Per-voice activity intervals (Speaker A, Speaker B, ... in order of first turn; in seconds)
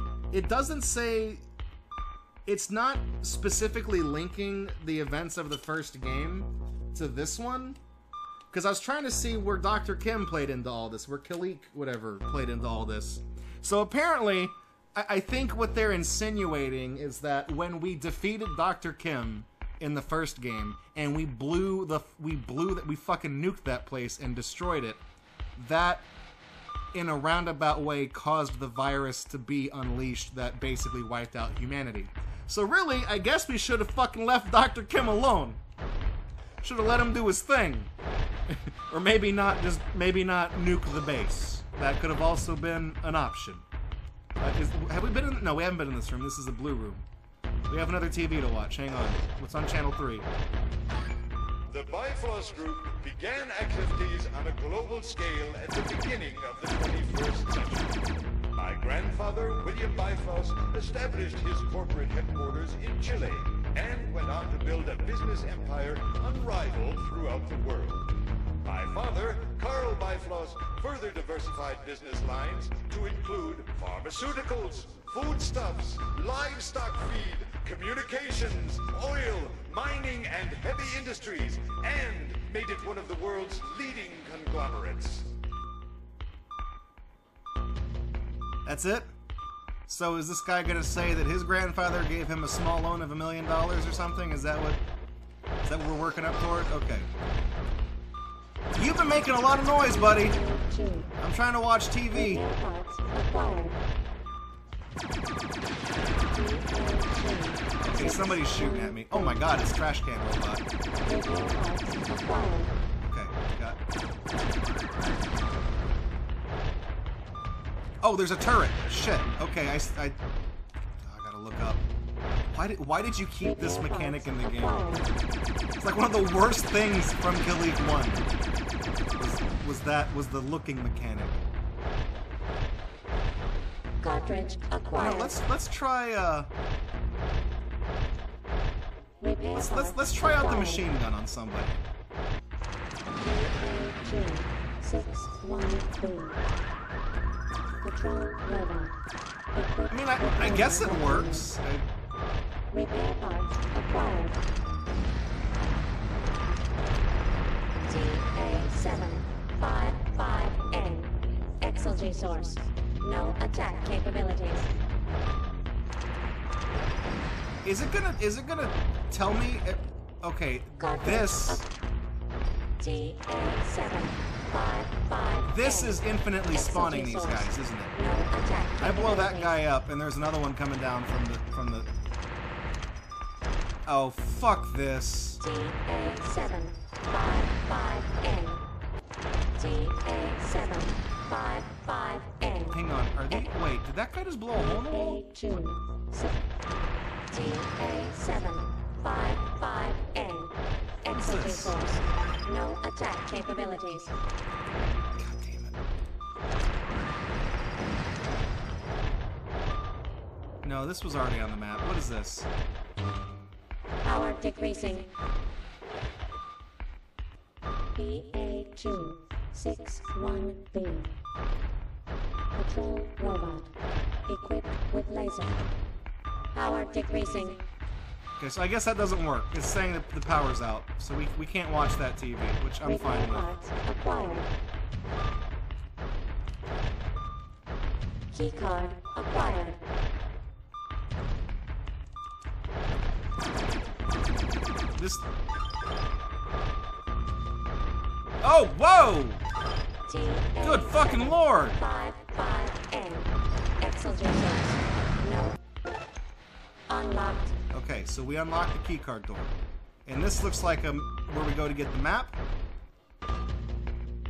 Speaker A: 0.3-1.4, 2.5-7.8, 8.5-25.0, 25.6-26.1, 26.9-35.6, 36.6-37.9, 38.5-43.6, 44.4-47.0, 47.7-50.3, 88.6-89.1, 89.9-94.8, 95.6-97.1, 98.7-100.4, 101.2-102.4, 107.8-110.6, 113.0-113.8, 118.0-120.2, 121.0-121.8, 122.5-124.9, 125.8-128.3, 129.2-131.4, 135.0-136.5, 139.5-141.8, 149.9-151.9, 167.6-171.6, 175.5-177.9, 178.8-181.9, 183.8-185.4, 192.7-195.2, 201.1-201.8, 205.2-205.7, 210.6-212.5, 228.4-233.5, 244.9-245.2, 248.4-249.4, 250.6-251.8, 257.7-259.5, 260.1-262.3
Speaker B: 51.7-58.0, 58.5-85.3
Speaker C: 100.1-101.1, 102.1-103.8, 106.3-109.6, 111.0-112.8, 123.4-125.1, 134.0-135.3, 139.2-140.8, 143.2-146.4, 147.8-149.0, 149.5-151.5, 152.7-154.4, 157.8-164.7, 170.8-171.7, 172.8-179.6, 185.4-188.7, 189.6-192.8, 194.5-196.5, 197.3-204.1, 214.0-215.1, 217.9-221.1, 222.5-223.7, 224.2-225.6, 226.5-227.7, 232.8-234.5, 238.3-239.8, 250.1-255.6, 256.9-257.5